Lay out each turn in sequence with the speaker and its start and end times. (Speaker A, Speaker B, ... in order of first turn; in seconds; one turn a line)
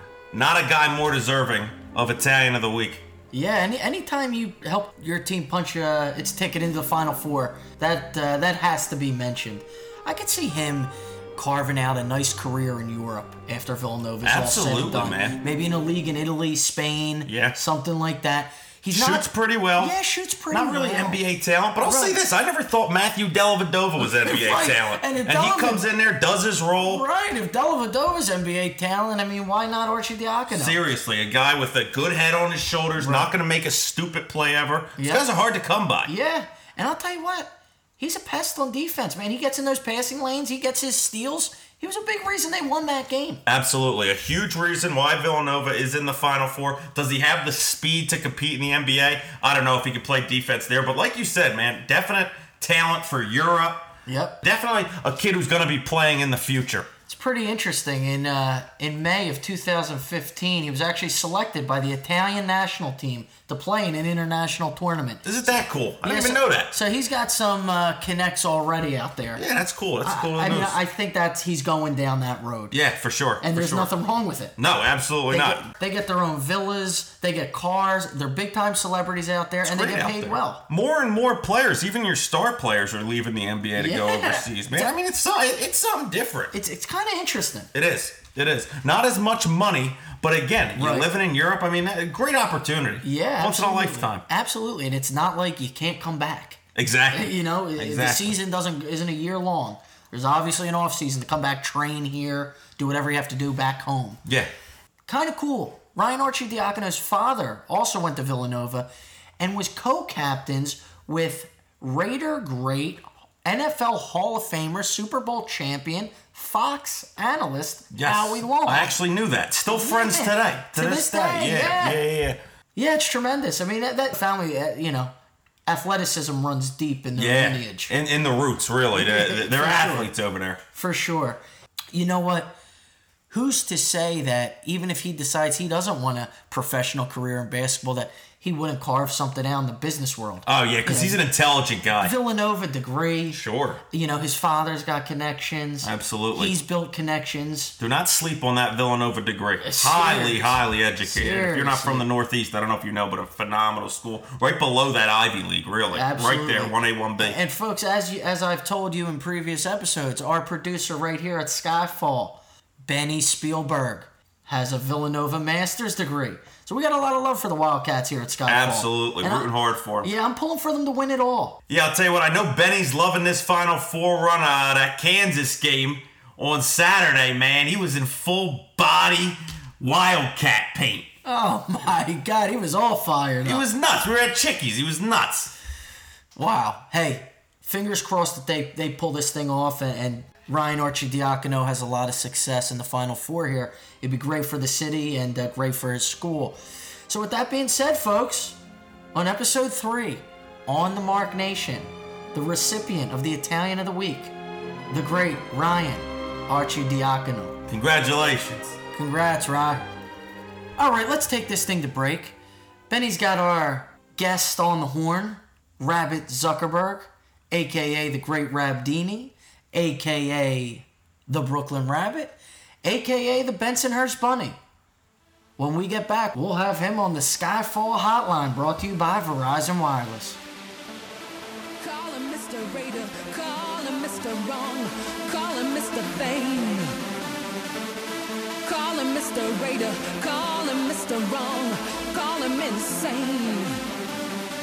Speaker A: 0.3-3.0
Speaker B: 3.3-21.2
Speaker A: 14.2-15.4
Speaker A: 17.2-17.6
Speaker A: 18.9-19.9
Speaker A: 20.5-27.0
Speaker B: 21.8-22.2
Speaker B: 24.0-25.9
Speaker B: 26.8-30.8
Speaker A: 30.5-36.1
Speaker B: 33.0-33.3
Speaker B: 35.0-35.2
Speaker B: 36.0-43.4
Speaker A: 43.5-56.9
Speaker B: 54.1-54.4
Speaker B: 57.1-65.3
Speaker A: 65.2-66.7
Speaker B: 66.0-69.4
Speaker A: 69.3-70.8
Speaker B: 70.0-72.8
Speaker A: 72.7-73.9
Speaker B: 73.4-74.5
Speaker A: 74.6-75.7
Speaker B: 75.3-80.6
Speaker A: 79.6-86.5
Speaker B: 83.8-84.9
Speaker B: 86.5-87.7
Speaker A: 87.7-94.2
Speaker B: 90.8-91.1
Speaker B: 93.0-96.6
Speaker A: 96.7-98.4
Speaker B: 97.1-104.2
Speaker A: 104.2-104.5
Speaker B: 105.1-118.9
Speaker A: 117.9-122.4
Speaker B: 119.7-122.0
Speaker B: 122.7-125.1
Speaker B: 125.7-127.9
Speaker A: 127.2-130.6
Speaker B: 128.9-130.1
Speaker B: 130.7-131.4
Speaker B: 131.9-132.6
Speaker B: 133.3-141.2
Speaker A: 140.4-142.1
Speaker B: 142.0-147.8
Speaker A: 143.3-143.8
Speaker A: 145.8-146.5
Speaker A: 147.8-157.4
Speaker B: 149.6-152.1
Speaker B: 155.9-169.5
Speaker A: 168.5-170.1
Speaker B: 170.0-171.6
Speaker A: 171.7-181.1
Speaker B: 181.2-183.7
Speaker A: 183.4-185.5
Speaker B: 186.3-198.6
Speaker B: 199.1-204.3
Speaker B: 204.9-207.6
Speaker A: 207.7-208.8
Speaker B: 208.9-209.8
Speaker B: 210.8-212.3
Speaker B: 212.9-224.6
Speaker B: 225.6-230.4
Speaker C: 231.8-236.9
Speaker C: 238.6-243.8